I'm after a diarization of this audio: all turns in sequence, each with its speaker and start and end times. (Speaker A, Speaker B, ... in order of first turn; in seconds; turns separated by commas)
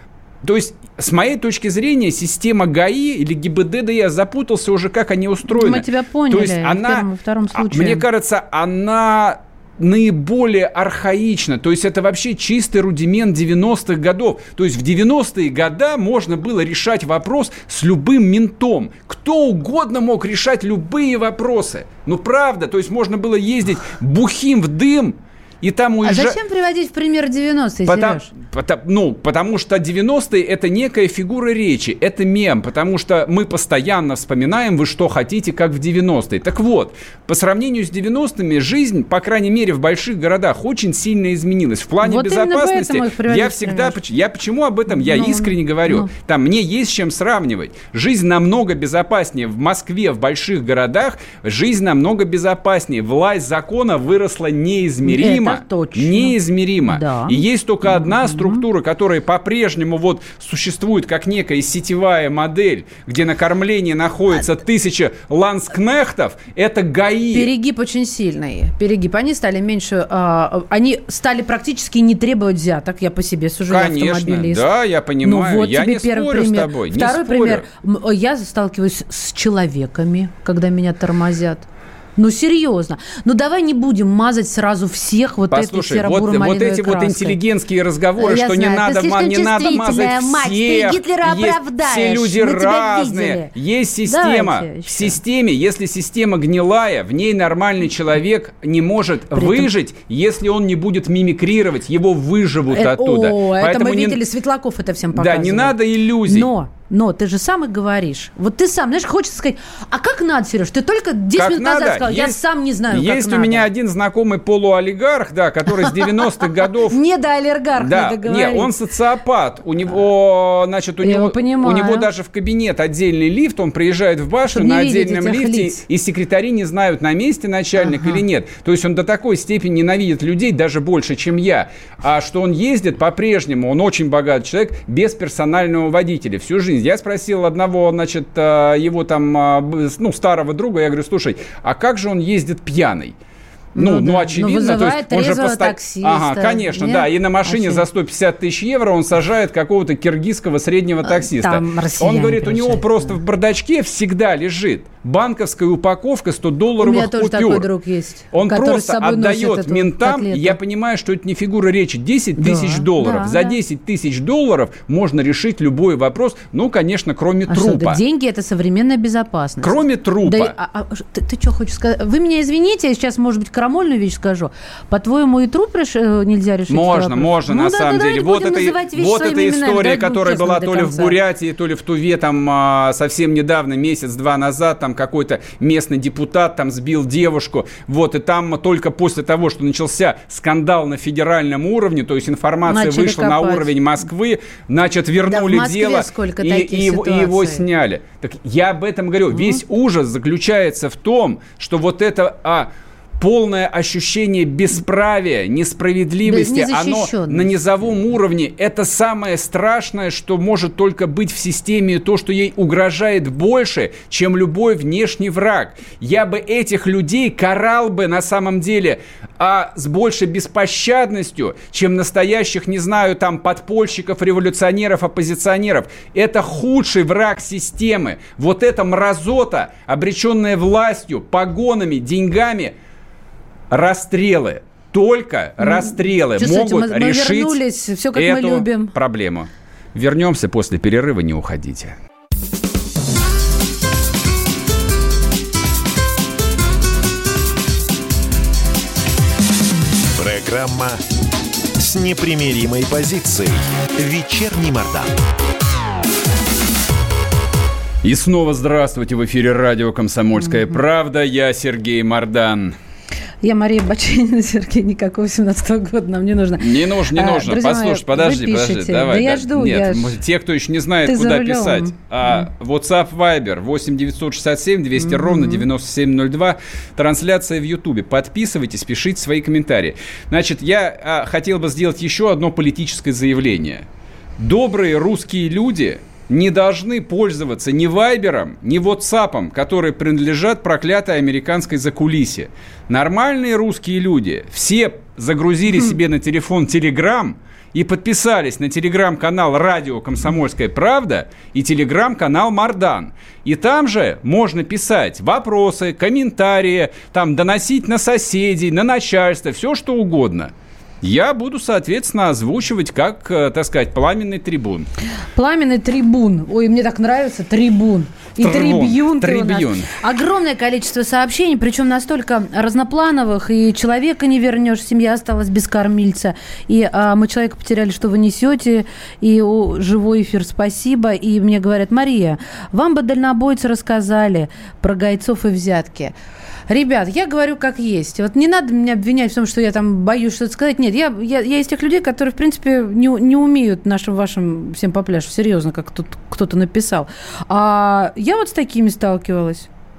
Speaker A: 0.4-26.4, Speaker B: 5.5-8.0, Speaker B: 26.0-28.3, Speaker A: 27.9-67.5, Speaker B: 42.0-44.0, Speaker B: 44.9-46.1, Speaker B: 55.0-58.6, Speaker B: 67.3-74.7, Speaker A: 73.7-77.7, Speaker B: 75.2-81.7, Speaker B: 82.2-87.4, Speaker A: 85.5-104.2, Speaker B: 88.2-93.5, Speaker B: 94.1-95.2, Speaker B: 99.3-99.7, Speaker B: 102.7-113.7, Speaker A: 105.1-106.5, Speaker A: 111.3-117.0, Speaker B: 116.8-118.7, Speaker A: 117.8-143.2, Speaker B: 121.0-122.1, Speaker B: 124.5-125.8, Speaker B: 127.9-128.2, Speaker B: 143.8-147.8, Speaker A: 143.8-157.7, Speaker B: 151.0-153.2, Speaker B: 156.8-160.6, Speaker A: 158.3-168.0, Speaker B: 162.4-163.6, Speaker B: 167.5-181.2, Speaker A: 169.6-170.6, Speaker A: 176.7-232.8, Speaker B: 192.7-193.7, Speaker B: 195.3-197.7, Speaker B: 206.2-207.5, Speaker A: 233.7-237.6, Speaker B: 235.6-238.9, Speaker A: 238.1-242.0, Speaker C: 250.2-251.0, Speaker C: 251.8-255.1, Speaker A: 258.0-262.8, Speaker B: 263.4-270.2, Speaker A: 266.6-283.9, Speaker B: 271.1-272.4, Speaker B: 275.2-275.6, Speaker A: 284.4-314.9, Speaker B: 315.4-336.1, Speaker A: 318.4-319.9, Speaker B: 336.7-349.7